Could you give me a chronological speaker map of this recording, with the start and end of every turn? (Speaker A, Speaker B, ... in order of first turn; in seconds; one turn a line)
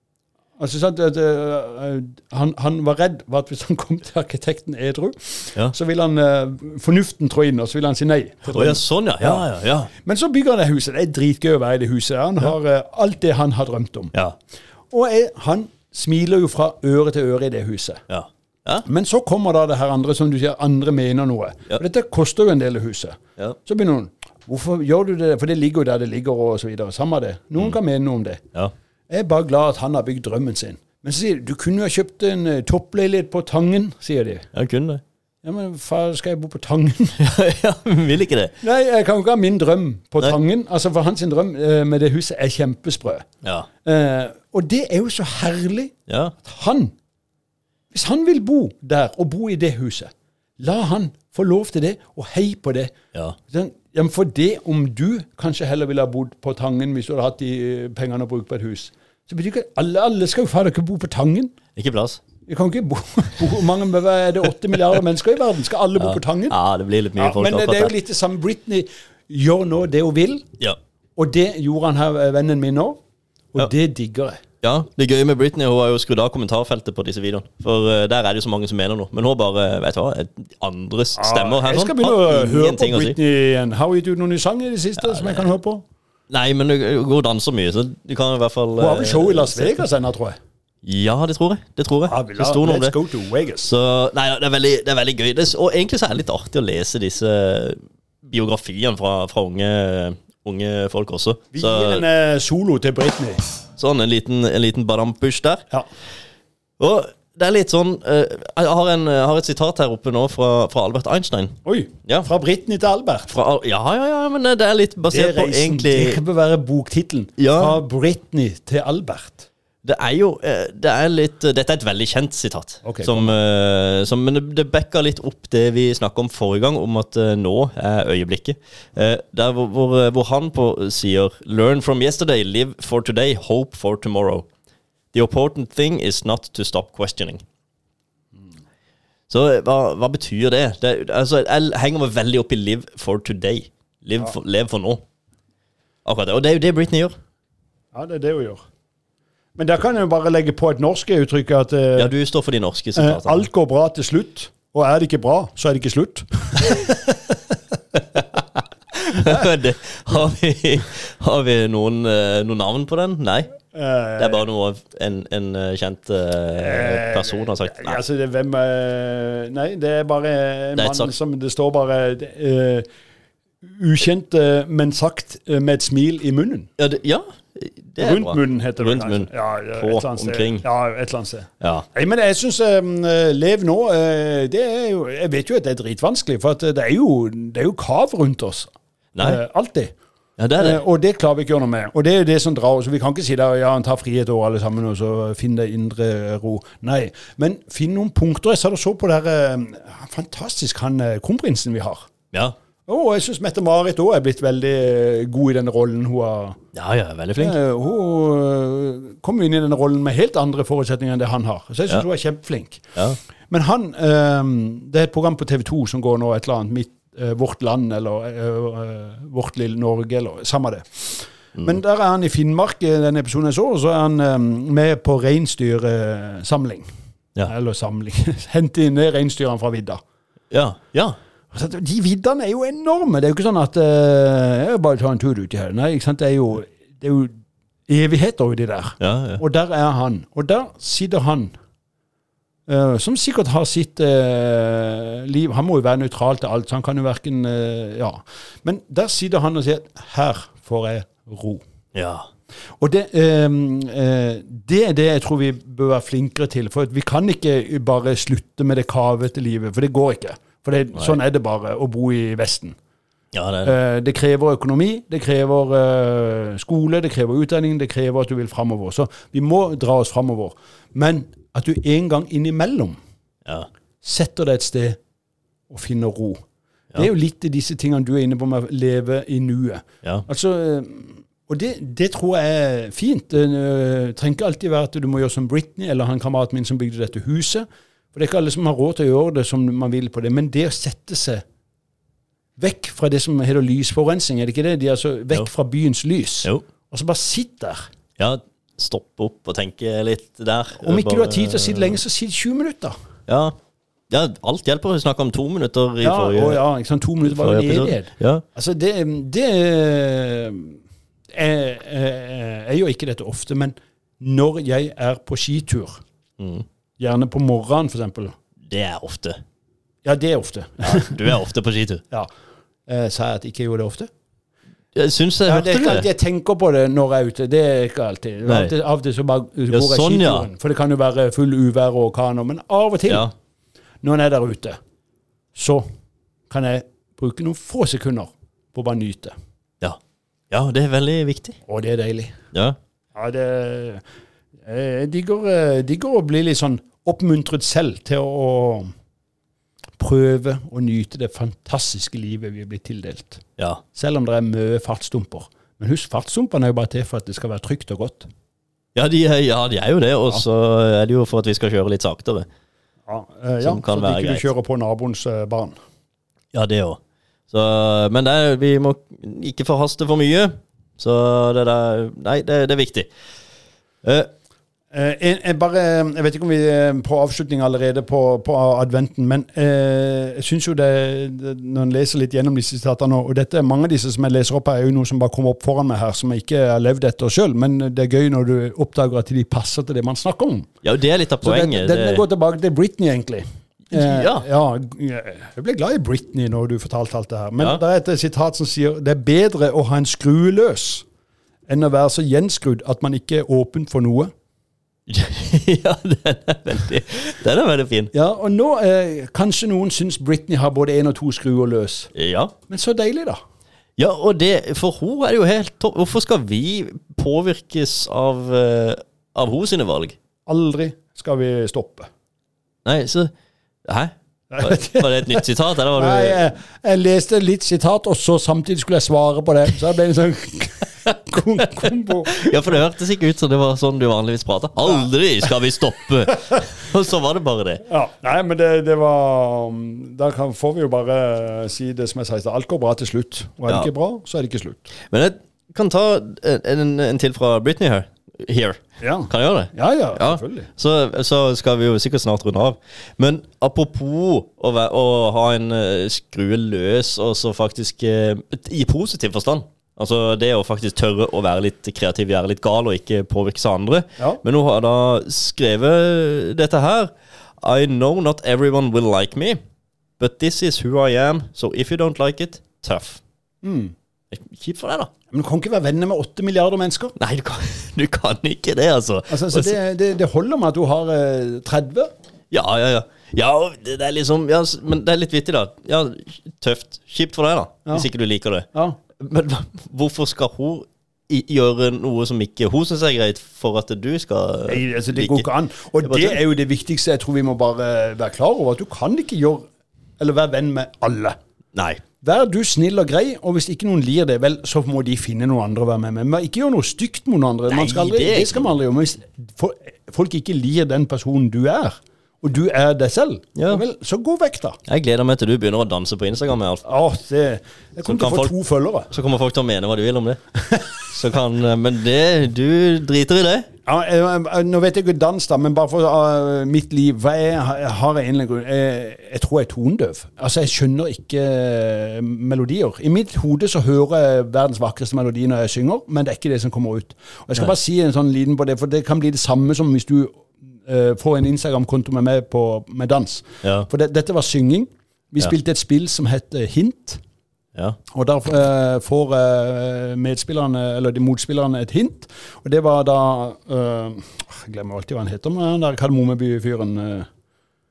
Speaker A: 0.6-9.5
Speaker B: 8.5-9.9
Speaker A: 10.0-14.1
Speaker A: 14.9-18.0
Speaker B: 18.1-18.9
Speaker A: 18.9-28.4
Speaker A: 29.1-34.5
Speaker B: 34.5-35.0
Speaker A: 35.4-37.2
Speaker B: 37.2-38.5
Speaker A: 38.6-43.2
Speaker A: 43.9-45.9
Speaker B: 46.1-46.4
Speaker A: 46.4-46.9
Speaker A: 47.9-52.9
Speaker A: 53.5-61.5
Speaker B: 61.8-62.2
Speaker A: 62.5-66.6
Speaker B: 66.0-67.9
Speaker A: 67.2-70.4
Speaker A: 71.2-73.0
Speaker A: 73.5-74.4
Speaker B: 74.6-83.2
Speaker A: 81.2-85.8
Speaker B: 85.0-85.5
Speaker B: 86.3-89.8
Speaker A: 88.8-90.4
Speaker B: 90.8-93.0
Speaker A: 92.1-93.7
Speaker B: 93.6-102.0
Speaker A: 101.5-103.4
Speaker B: 103.8-105.6
Speaker B: 106.8-112.3
Speaker A: 111.7-113.3
Speaker B: 113.3-116.2
Speaker A: 115.1-119.5
Speaker B: 117.4-117.8
Speaker B: 119.8-134.5
Speaker A: 122.8-123.4
Speaker B: 135.1-137.4
Speaker B: 139.3-145.0
Speaker B: 146.1-147.1
Speaker A: 147.9-148.6
Speaker A: 149.6-152.1
Speaker B: 152.0-153.5
Speaker A: 152.9-157.4
Speaker B: 158.2-158.4
Speaker B: 159.0-163.6
Speaker A: 163.7-164.5
Speaker B: 164.2-168.0
Speaker A: 166.5-172.9
Speaker B: 170.8-171.1
Speaker A: 173.6-176.7
Speaker B: 176.8-180.6
Speaker A: 178.0-189.9
Speaker B: 181.6-181.9
Speaker B: 189.2-189.4
Speaker B: 190.4-190.8
Speaker A: 190.6-202.1
Speaker A: 202.9-206.6
Speaker B: 206.7-207.6
Speaker A: 207.4-212.9
Speaker A: 213.5-226.9
Speaker A: 227.5-230.0
Speaker B: 230.5-231.2
Speaker A: 231.5-237.3
Speaker A: 237.9-241.5
Speaker B: 239.0-239.4
Speaker A: 242.7-251.6
Speaker B: 251.9-252.3
Speaker A: 252.8-262.8
Speaker B: 263.3-263.7
Speaker A: 263.6-273.0
Speaker A: 274.0-275.0
Speaker A: 275.7-276.4
Speaker A: 276.9-291.4
Speaker A: 292.6-297.8
Speaker B: 298.2-302.0
Speaker A: 300.8-302.9
Speaker B: 303.3-303.6
Speaker B: 304.1-306.6
Speaker A: 306.0-310.8
Speaker B: 307.2-308.4
Speaker A: 311.3-316.0
Speaker B: 316.4-316.7
Speaker A: 317.0-318.3
Speaker B: 318.7-319.4
Speaker A: 320.0-321.2
Speaker B: 320.9-322.0
Speaker A: 322.9-324.1
Speaker B: 324.9-326.1
Speaker A: 325.5-333.3
Speaker B: 328.5-328.7
Speaker B: 329.7-330.5
Speaker A: 334.0-334.8
Speaker A: 335.6-335.8
Speaker A: 336.5-339.3
Speaker B: 340.5-341.6
Speaker A: 341.7-342.3
Speaker A: 343.1-344.0
Speaker A: 344.7-348.9
Speaker A: 350.0-353.4
Speaker A: 354.0-358.3
Speaker B: 358.9-362.5
Speaker A: 363.1-365.8
Speaker B: 363.6-364.5
Speaker B: 366.5-367.0
Speaker B: 367.5-373.1
Speaker B: 374.0-374.3
Speaker A: 374.9-390.7
Speaker B: 390.8-392.2
Speaker A: 391.4-401.1
Speaker B: 393.9-394.5
Speaker A: 401.7-404.3
Speaker B: 405.1-408.1
Speaker A: 408.1-412.1
Speaker B: 412.1-412.5
Speaker A: 412.7-413.4
Speaker B: 414.0-420.2
Speaker A: 420.5-422.1
Speaker B: 422.9-423.3
Speaker B: 423.9-426.4
Speaker A: 424.5-432.7
Speaker B: 432.3-437.8
Speaker A: 437.9-444.9
Speaker B: 445.1-469.6
Speaker A: 449.0-450.7
Speaker B: 470.2-473.2
Speaker A: 473.6-473.9
Speaker B: 474.3-475.1
Speaker A: 475.3-477.1
Speaker B: 477.2-479.8
Speaker A: 479.3-482.1
Speaker B: 482.5-488.7
Speaker B: 489.2-495.5
Speaker A: 494.7-499.7
Speaker B: 496.0-496.4
Speaker A: 500.2-501.4
Speaker B: 501.8-502.0
Speaker A: 502.2-514.8
Speaker B: 507.7-508.7
Speaker B: 513.6-513.8
Speaker B: 514.9-516.9
Speaker A: 516.9-519.1
Speaker B: 518.0-518.5
Speaker B: 519.1-520.4
Speaker B: 521.1-523.7
Speaker A: 523.9-547.2
Speaker B: 543.6-543.9
Speaker A: 548.1-557.3